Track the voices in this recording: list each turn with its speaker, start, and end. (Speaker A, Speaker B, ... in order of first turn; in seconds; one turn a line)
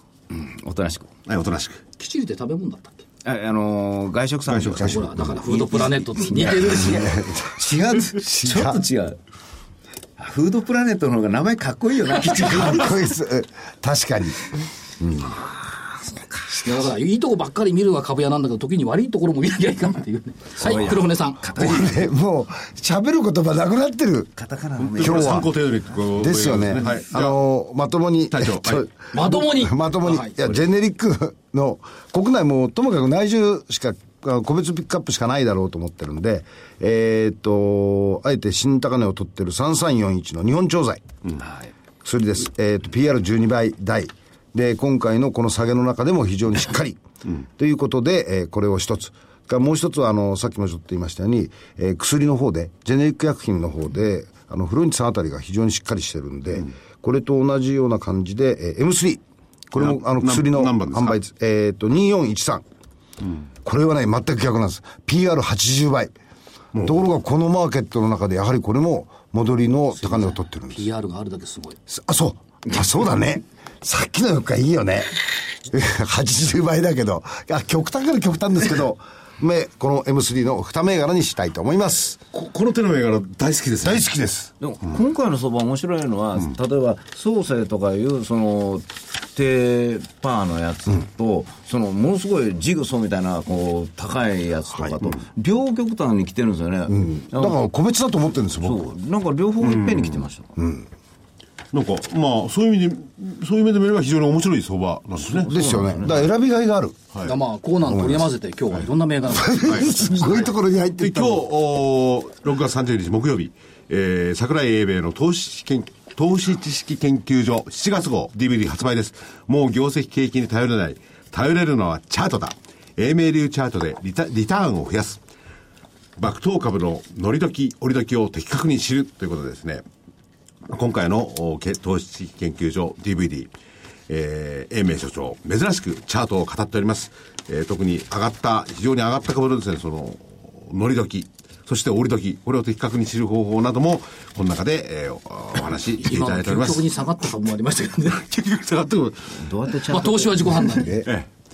Speaker A: 0.3-1.1
Speaker B: 1.2-1.8
Speaker C: 2.0-3.0
Speaker A: 3.2-9.2
Speaker B: 4.5-5.2
Speaker C: 4.8-7.1
Speaker D: 6.7-7.6
Speaker D: 8.1-8.8
Speaker A: 10.2-13.0
Speaker D: 12.5-14.4
Speaker A: 16.1-16.5
Speaker C: 16.6-21.8
Speaker A: 20.6-21.9
Speaker D: 21.5-24.3
Speaker A: 24.4-25.6
Speaker B: 24.8-27.4
Speaker D: 25.0-25.5
Speaker D: 26.1-41.0
Speaker B: 28.3-28.9
Speaker C: 29.1-30.4
Speaker D: 42.0-62.6
Speaker B: 59.8-61.2
Speaker D: 63.6-66.1
Speaker D: 66.8-70.9
Speaker C: 70.0-71.8
Speaker D: 71.9-82.2
Speaker B: 82.3-84.1
Speaker D: 83.8-84.5
Speaker A: 84.6-97.7
Speaker D: 94.8-95.1
Speaker D: 96.9-98.9
Speaker A: 98.6-100.5
Speaker B: 99.6-100.2
Speaker D: 100.5-100.9
Speaker B: 101.7-105.5
Speaker A: 105.2-106.3
Speaker D: 105.3-107.0
Speaker C: 107.2-110.5
Speaker D: 107.9-108.2
Speaker D: 109.3-111.4
Speaker B: 109.7-110.0
Speaker B: 111.0-125.2
Speaker B: 126.2-129.8
Speaker B: 130.7-133.5
Speaker B: 134.1-146.9
Speaker C: 146.0-148.2
Speaker B: 148.1-149.5
Speaker A: 149.3-151.0
Speaker C: 149.9-151.0
Speaker B: 151.0-151.3